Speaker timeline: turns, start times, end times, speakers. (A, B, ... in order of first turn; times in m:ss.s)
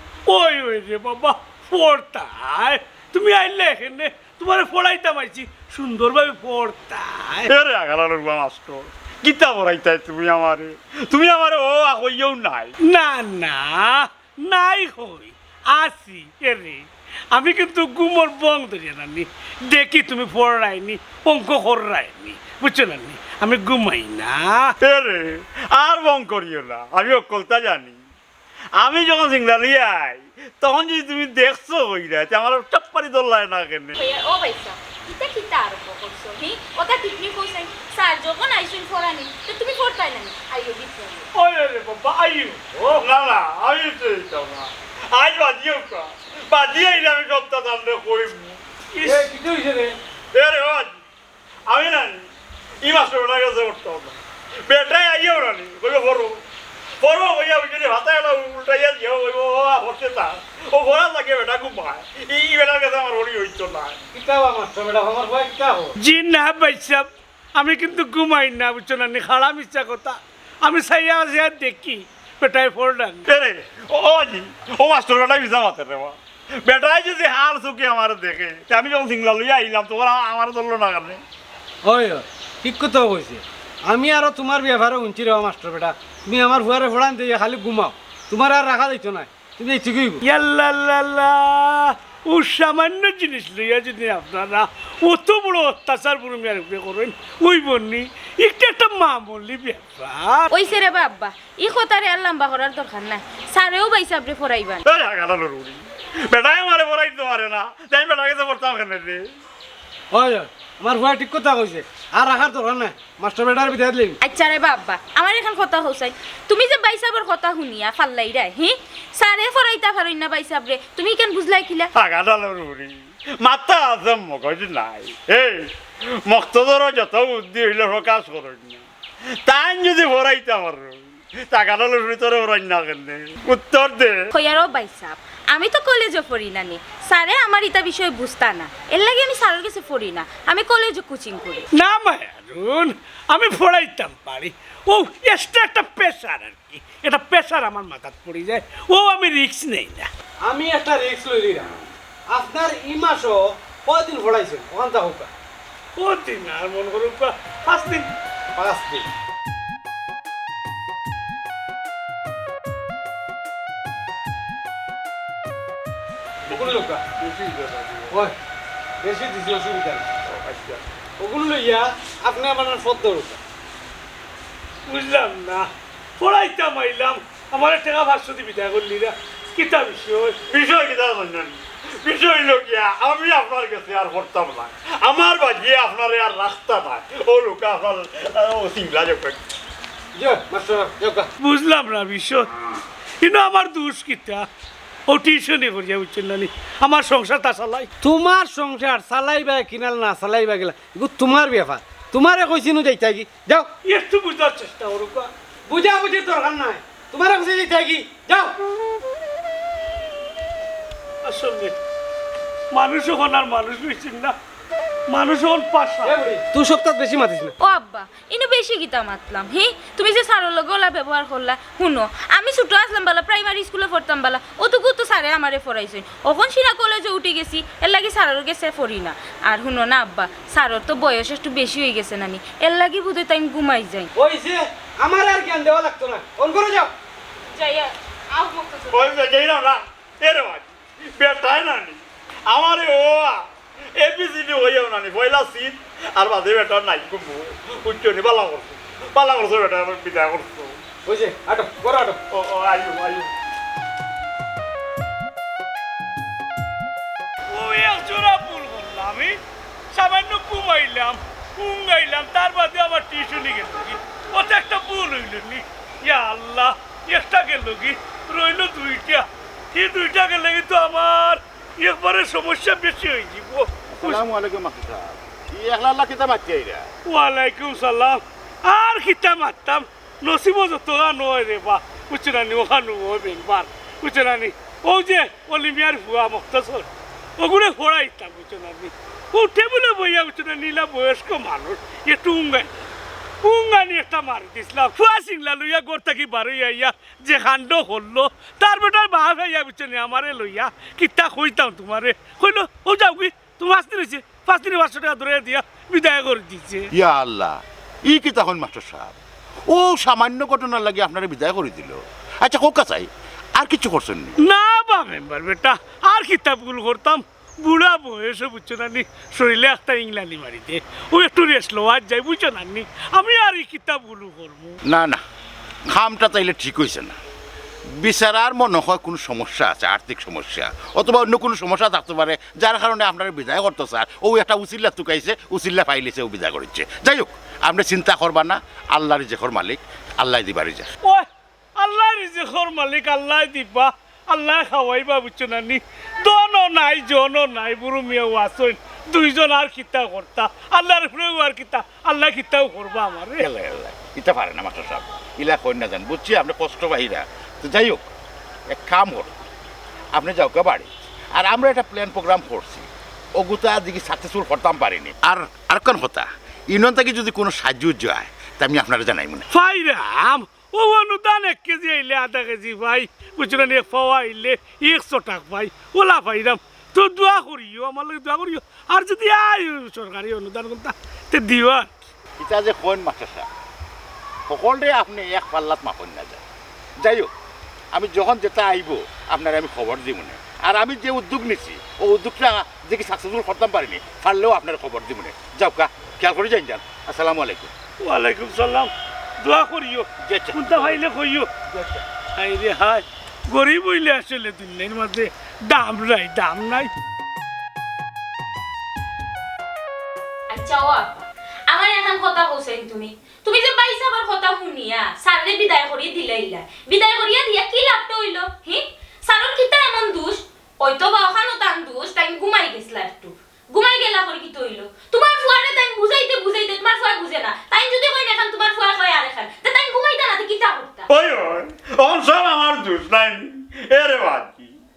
0:00.3-0:07.5 A
0:07.5-0:12.8 B
0:12.8-0:24.8 A
0:24.8-0:28.0 B
0:28.8-0:34.0 B
0:34.0-0:41.3 C
0:41.4-0:43.0 A
0:43.0-0:48.6 B
0:49.0-0:49.3 A
0:49.0-0:49.9 D
0:50.3-0:51.0 B
0:51.7-0:52.3 B
0:52.8-0:56.4 B
0:57.0-1:04.0 B
1:04.1-1:06.0 D
1:06.0-1:13.2 A
1:13.3-1:21.2 B
1:21.8-1:30.2 D
1:30.2-1:40.5 A
1:40.5-1:44.8 C
1:44.9-1:49.2 B
1:50.1-1:54.2 D
1:54.2-2:01.9 C
2:02.0-2:05.7 B
2:06.3-2:08.8 B
2:09.4-2:14.2 B
2:14.3-2:21.6 C
2:21.8-2:30.1 A
2:30.5-2:31.7 D
2:32.3-2:35.3 D
2:36.0-2:38.1 A
2:38.6-2:39.0 D
2:46.5-2:47.0 D
2:46.5-2:48.1 B
2:49.0-2:50.1 D
2:50.3-2:50.8 B
2:51.2-2:53.4 D
2:54.9-2:55.7 A
2:56.2-3:00.4 A
3:00.5-3:09.4 B
3:10.2-3:11.3 D
3:11.4-3:12.5 A
3:13.2-3:14.5 A
3:15.1-3:17.9 A
3:18.0-3:23.7 D
3:23.8-3:25.3 A
3:25.7-3:28.6 D
3:31.2-3:31.8 A
3:32.7-3:34.4 A
3:35.1-3:36.2 A
3:36.0-3:37.6 D
3:37.6-3:54.1 C
3:54.2-3:56.9 D
3:57.5-3:59.2 C
3:58.9-4:03.4 B
4:04.0-4:10.8 B
4:11.1-4:12.2 D
4:12.3-4:13.3 B
4:17.5-4:19.4 A
4:19.9-4:34.2 A
4:33.9-4:36.9 E
4:37.1-4:46.9 A
4:47.4-4:52.7 A
4:53.4-5:06.9 A
5:06.9-5:09.2 E
5:09.7-5:14.4 E
5:14.4-5:24.8 A
5:24.9-5:25.2 E
5:25.9-5:27.2 E
5:28.0-5:40.9 E
5:41.8-5:53.5 A
5:53.4-5:58.1 E
5:58.7-5:59.4 E
6:00.1-6:09.5 E
6:09.5-6:22.0 A
6:22.4-6:23.5 E
6:24.5-6:26.4 E
6:27.0-6:27.3 E
6:27.9-6:37.7 E
6:38.0-6:41.5 A
6:40.2-6:41.0 E
6:41.7-6:42.0 E
6:42.4-6:46.9 A
6:50.5-7:11.1 C
7:11.1-7:14.7 B